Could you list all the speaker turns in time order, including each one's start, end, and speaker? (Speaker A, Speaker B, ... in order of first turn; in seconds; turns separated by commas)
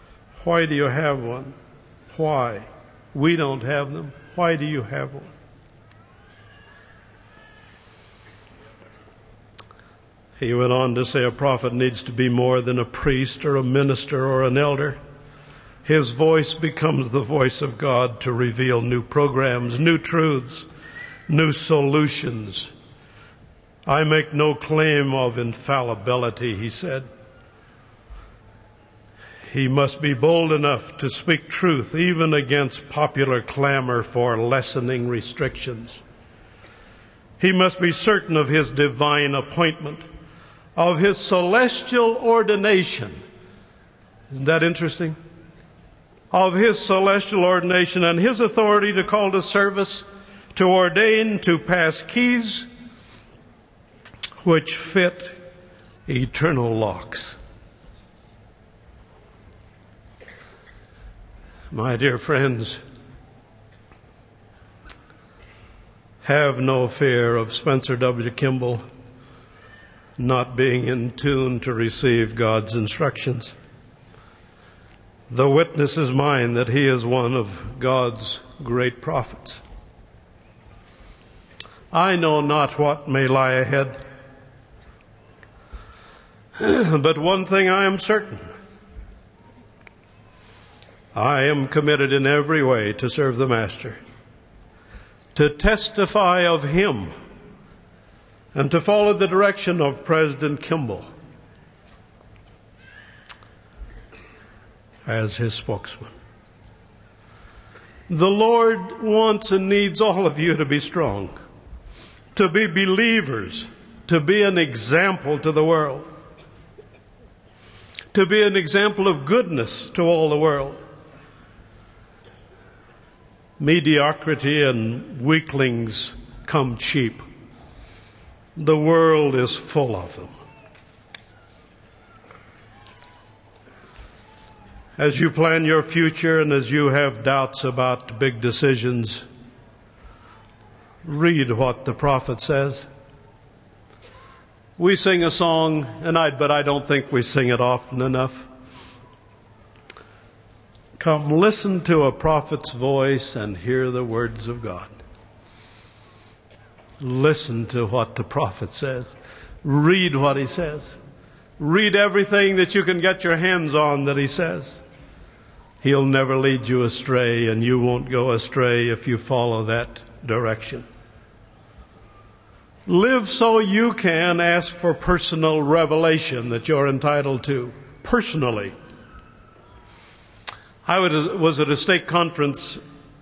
Speaker A: 0.4-1.6, Speaker A: 2.1-5.3, Speaker A: 10.4-15.0, Speaker A: 15.8-20.7, Speaker A: 21.3-22.7, Speaker A: 23.9-27.1, Speaker A: 29.4-36.0, Speaker A: 37.4-40.0, Speaker A: 40.8-43.2, Speaker A: 44.3-45.2, Speaker A: 46.3-52.7, Speaker A: 54.4-55.4, Speaker A: 56.0-57.4, Speaker A: 61.7-62.8, Speaker A: 66.2-68.8, Speaker A: 70.2-73.5, Speaker A: 75.3-79.6, Speaker A: 81.9-84.0, Speaker A: 86.6-88.4, Speaker A: 91.1-94.0, Speaker A: 95.3-97.1, Speaker A: 98.5-101.1, Speaker A: 105.0-106.1, Speaker A: 108.1-111.3, Speaker A: 112.3-116.1, Speaker A: 118.1-120.8, Speaker A: 123.6-127.2, Speaker A: 128.6-130.3, Speaker A: 135.0-139.3, Speaker A: 141.0-142.9, Speaker A: 144.8-148.5, Speaker A: 151.0-154.9, Speaker A: 157.0-161.0, Speaker A: 161.6-164.8, Speaker A: 165.8-170.8, Speaker A: 172.8-178.7, Speaker A: 180.8-182.8